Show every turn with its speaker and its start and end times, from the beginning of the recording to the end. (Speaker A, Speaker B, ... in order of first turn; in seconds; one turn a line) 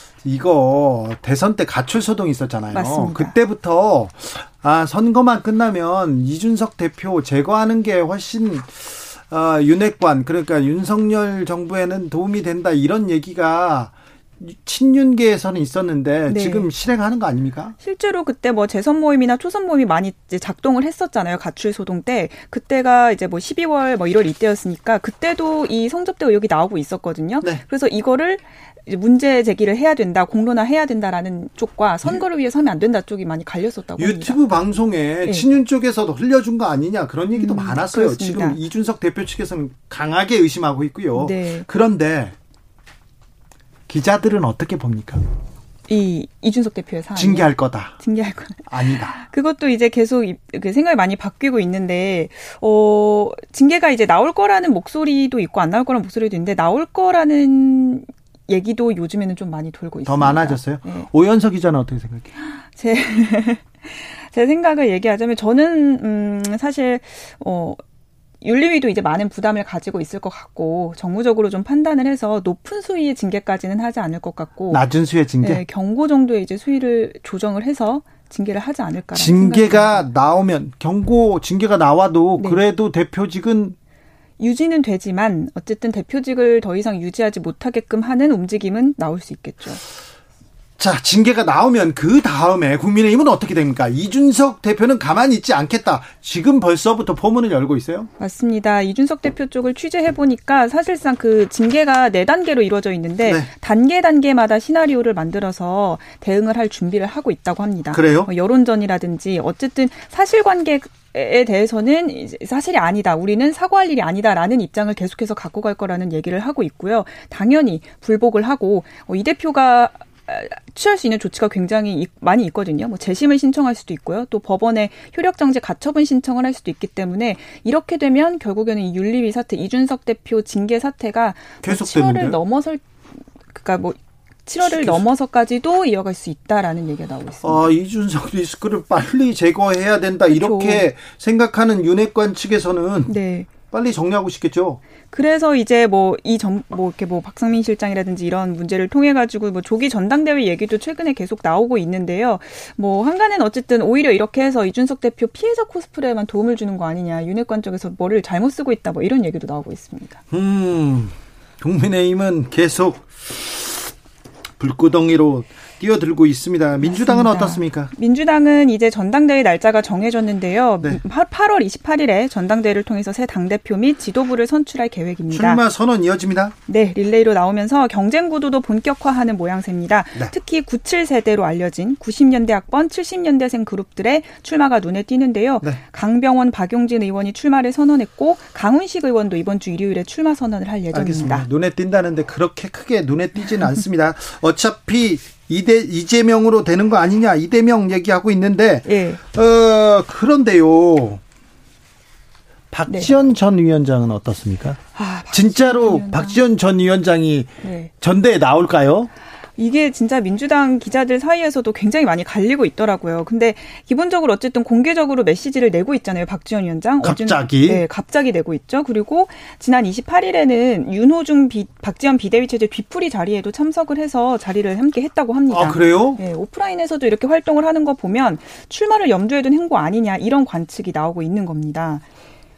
Speaker A: 0.2-17.8
Speaker B: 2.7-3.3
Speaker B: 16.3-16.7
Speaker B: 17.8-34.4
Speaker A: 34.0-42.3
Speaker B: 37.3-38.6
Speaker B: 41.1-41.6
Speaker A: 43.9-45.2
Speaker B: 45.9-61.1
Speaker A: 47.1-47.9
Speaker A: 48.7-49.2
Speaker A: 60.0-62.3
Speaker B: 62.6-67.8
Speaker B: 68.4-74.8
Speaker A: 74.7-75.6
Speaker B: 75.4-80.0
Speaker A: 79.1-83.8
Speaker B: 84.4-89.8
Speaker A: 90.8-98.1
Speaker B: 98.2-132.8
Speaker A: 103.2-103.5
Speaker A: 107.9-108.3
Speaker A: 131.6-132.4
Speaker B: 133.5-137.6
Speaker A: 134.6-135.0
Speaker A: 137.4-143.1
Speaker B: 140.3-140.8
Speaker B: 143.1-143.5
Speaker A: 143.7-144.8
Speaker B: 145.1-160.2
Speaker A: 160.3-163.9
Speaker A: 164.6-167.9
Speaker B: 166.8-175.6
Speaker A: 175.3-176.5
Speaker B: 176.7-191.5
Speaker A: 190.9-201.2
Speaker B: 198.8-199.2
Speaker A: 202.7-204.8
Speaker B: 202.9-203.2
Speaker B: 204.9-206.4
Speaker A: 205.3-209.1
Speaker B: 207.6-207.9
Speaker B: 209.6-232.0
Speaker A: 217.0-217.8
Speaker A: 225.5-226.2